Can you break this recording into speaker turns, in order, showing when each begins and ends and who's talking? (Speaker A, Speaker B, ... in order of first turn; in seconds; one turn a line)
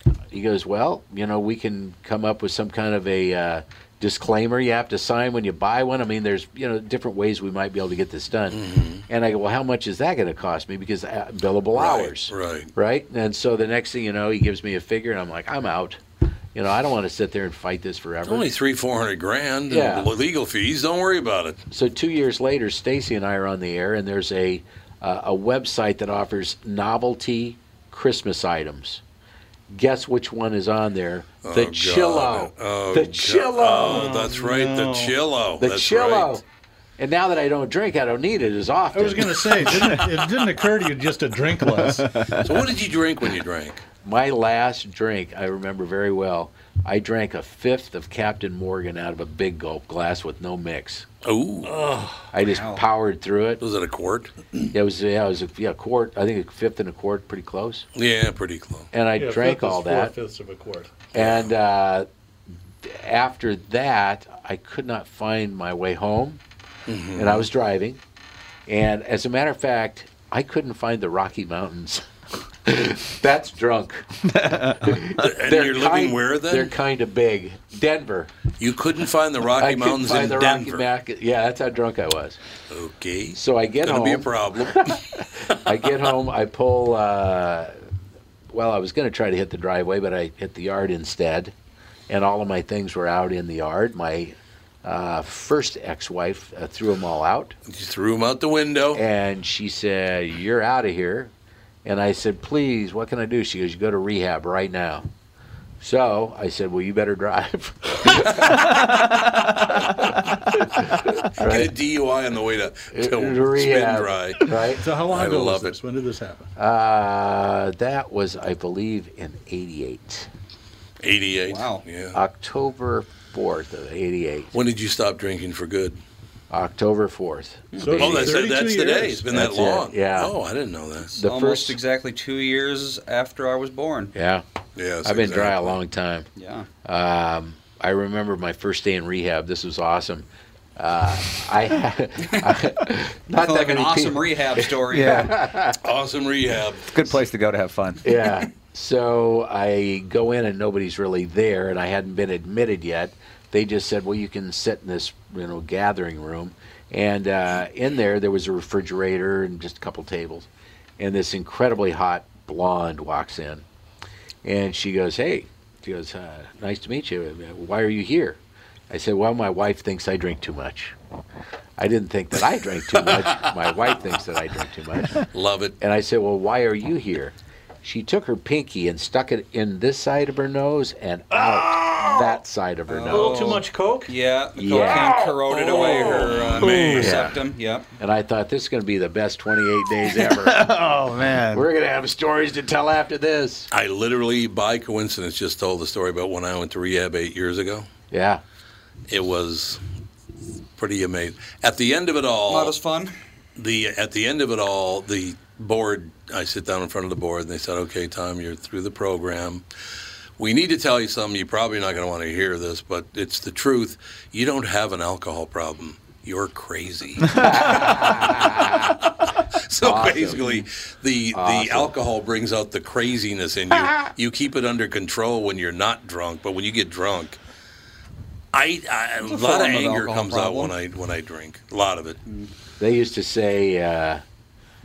Speaker A: 0.3-16.0
Speaker B: 8.5-9.0
Speaker B: 11.8-12.7
Speaker A: 16.5-18.5
Speaker B: 18.2-21.6
Speaker A: 19.7-20.1
Speaker A: 21.7-29.0
Speaker A: 29.7-34.1
Speaker B: 31.4-36.4
Speaker C: 33.8-35.1
Speaker A: 35.6-36.4
Speaker A: 37.0-39.7
Speaker C: 38.9-42.4
Speaker B: 42.4-43.8
Speaker A: 44.0-51.0
Speaker B: 51.2-51.7
Speaker C: 51.6-52.3
Speaker A: 52.3-53.6
Speaker D: 52.4-52.8
Speaker B: 53.6-54.5
Speaker A: 54.7-57.8
Speaker B: 57.9-58.9
Speaker A: 58.9-60.1
Speaker C: 59.2-61.0
Speaker B: 61.1-61.5
Speaker A: 61.1-62.1
Speaker A: 62.8-66.4
Speaker B: 66.9-67.5
Speaker A: 67.2-68.0
Speaker A: 68.7-72.0
Speaker A: 72.6-78.3
Speaker E: 74.3-75.0
Speaker B: 75.1-76.7
Speaker B: 78.6-80.8
Speaker A: 79.6-82.4
Speaker B: 82.7-85.5
Speaker A: 83.3-87.7
Speaker A: 88.5-91.5
Speaker A: 92.1-97.5
Speaker B: 97.7-99.0
Speaker A: 98.9-101.3
Speaker A: 101.8-105.1
Speaker A: 105.8-108.8
Speaker B: 108.1-108.5
Speaker A: 110.0-111.7
Speaker B: 111.4-114.5
Speaker A: 112.9-114.8
Speaker C: 114.8-116.5
Speaker B: 115.1-115.8
Speaker A: 116.6-120.3
Speaker B: 121.0-122.2
Speaker D: 121.5-121.8
Speaker A: 122.1-124.5
Speaker B: 124.5-126.0
Speaker A: 126.5-128.1
Speaker D: 127.7-128.3
Speaker C: 127.8-129.2
Speaker B: 128.0-131.1
Speaker A: 129.3-130.3
Speaker D: 131.1-134.1
Speaker A: 131.2-131.8
Speaker A: 134.1-134.4
Speaker B: 134.8-135.8
Speaker A: 135.0-136.3
Speaker D: 136.3-136.7
Speaker A: 136.8-140.2
Speaker A: 140.8-145.8
Speaker D: 143.4-145.3
Speaker E: 144.9-145.3
Speaker B: 145.8-147.2
Speaker E: 146.9-148.1
Speaker A: 148.0-160.5
Speaker A: 161.0-163.6
Speaker A: 164.4-168.4
Speaker A: 168.9-170.9
Speaker A: 171.8-175.2
Speaker B: 172.9-173.5
Speaker B: 175.2-175.8
Speaker A: 175.8-183.6
Speaker C: 181.3-182.4
Speaker D: 182.9-187.9
Speaker C: 183.1-184.1
Speaker A: 184.6-185.2
Speaker B: 185.2-187.3
Speaker E: 186.6-187.3
Speaker A: 187.0-187.3
Speaker A: 188.0-190.6
Speaker E: 190.0-191.7
Speaker A: 191.5-193.7
Speaker B: 193.7-197.9
Speaker A: 198.1-198.4
Speaker B: 199.1-199.8
Speaker B: 200.8-202.8
Speaker D: 202.5-203.1
Speaker B: 203.6-209.6
Speaker B: 210.4-227.4
Speaker A: 217.4-218.7
Speaker A: 219.8-220.4
Speaker A: 221.3-221.9
Speaker B: 228.5-232.2
Speaker D: 229.2-230.7
Speaker A: 232.8-234.2